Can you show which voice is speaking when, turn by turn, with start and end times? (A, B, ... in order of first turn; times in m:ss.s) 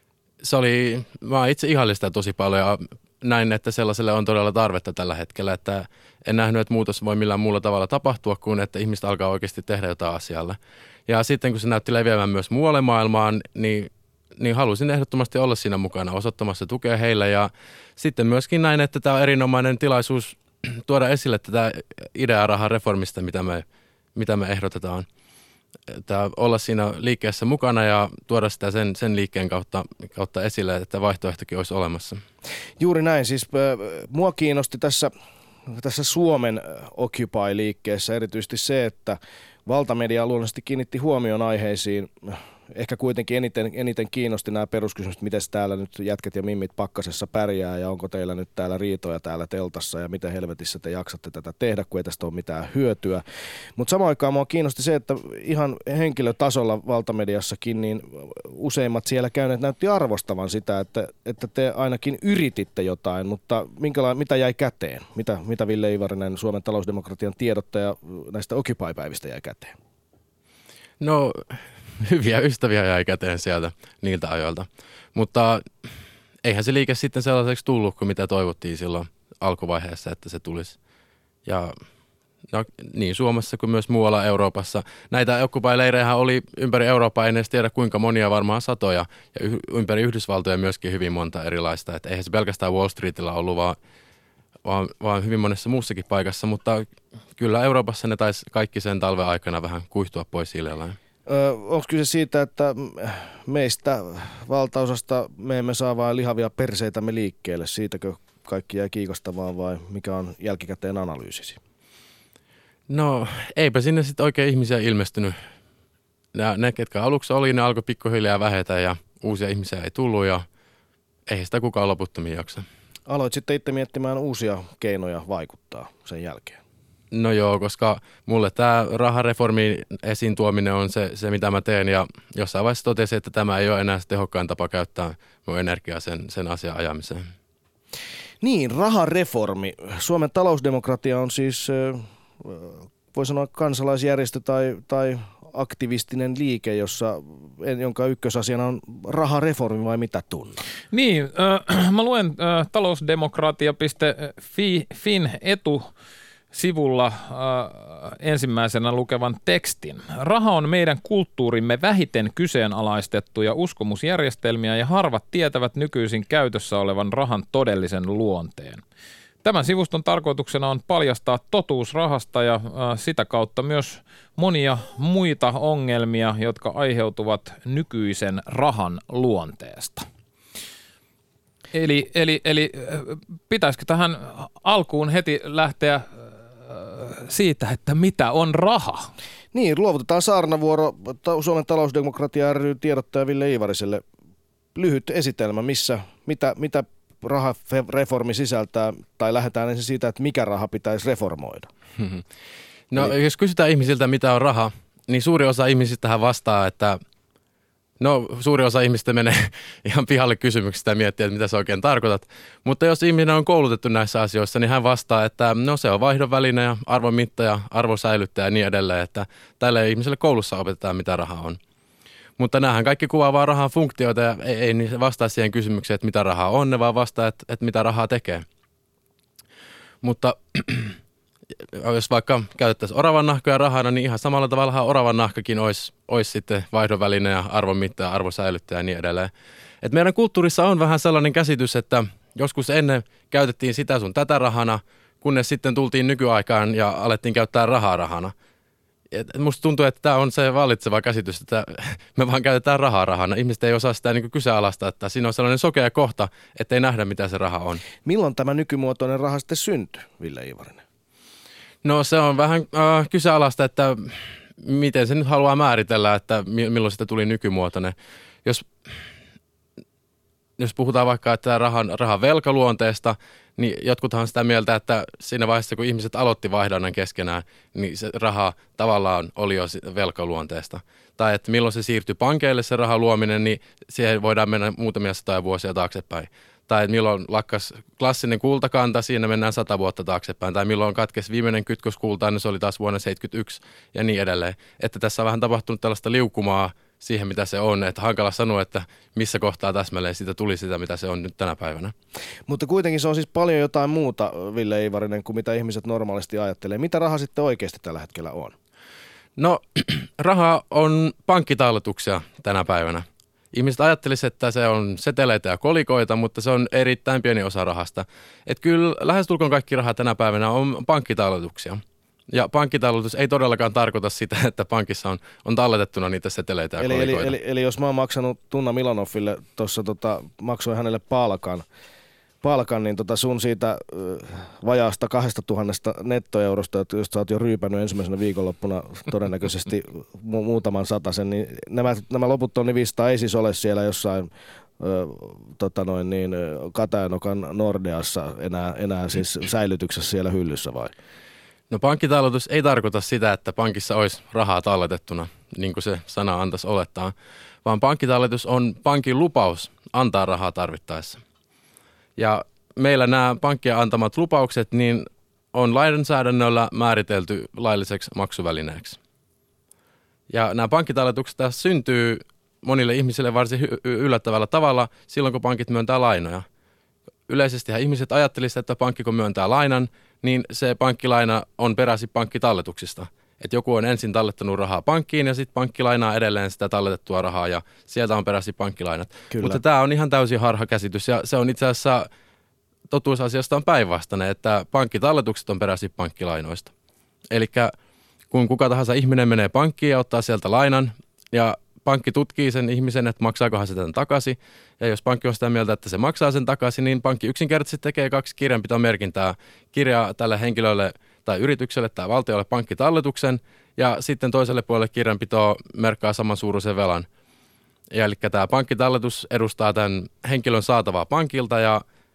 0:00.4-0:23.6 A
0:24.2-0:25.1 A
0:25.9-0:32.2 A
0:32.8-0:35.1 B
0:35.7-0:53.2 B
0:53.8-1:09.8 B
1:11.0-1:15.6 A
1:16.4-1:20.8 A
1:21.5-1:21.8 A
1:22.5-1:33.8 A
1:34.6-1:41.0 A
1:41.3-1:51.6 B
1:52.9-1:55.4 A
1:56.3-2:00.5 A
2:01.3-2:02.6 A
2:03.1-2:06.6 B
2:07.1-2:17.3 A
2:18.4-2:30.6 B
2:30.9-2:35.9 C
2:36.5-2:48.8 C
2:49.4-3:00.1 C
3:01.7-3:09.1 C
3:09.5-3:14.0 B
3:14.8-3:21.7 B
3:22.0-3:22.2 A
3:22.9-3:27.0 A
3:28.0-3:41.6 A
3:42.4-3:48.4 A
3:50.0-3:51.0 A
3:51.7-3:59.3 A
3:59.8-4:08.3 A
4:09.1-4:17.8 A
4:18.0-4:20.8 B
4:21.8-4:27.9 A
4:28.4-4:28.9 A
4:30.6-5:01.9 A
5:02.5-5:08.6 B
5:09.4-5:27.3 A
5:26.8-5:31.6 B
5:32.4-5:50.9 B
5:51.7-5:57.1 A
5:57.6-6:01.2 A
6:02.2-6:09.0 A
6:10.3-6:16.5 A
6:17.3-6:32.1 A
6:29.3-6:29.6 B
6:32.9-6:36.7 A
6:37.3-6:37.7 A
6:38.3-6:57.1 A
6:57.9-7:01.8 A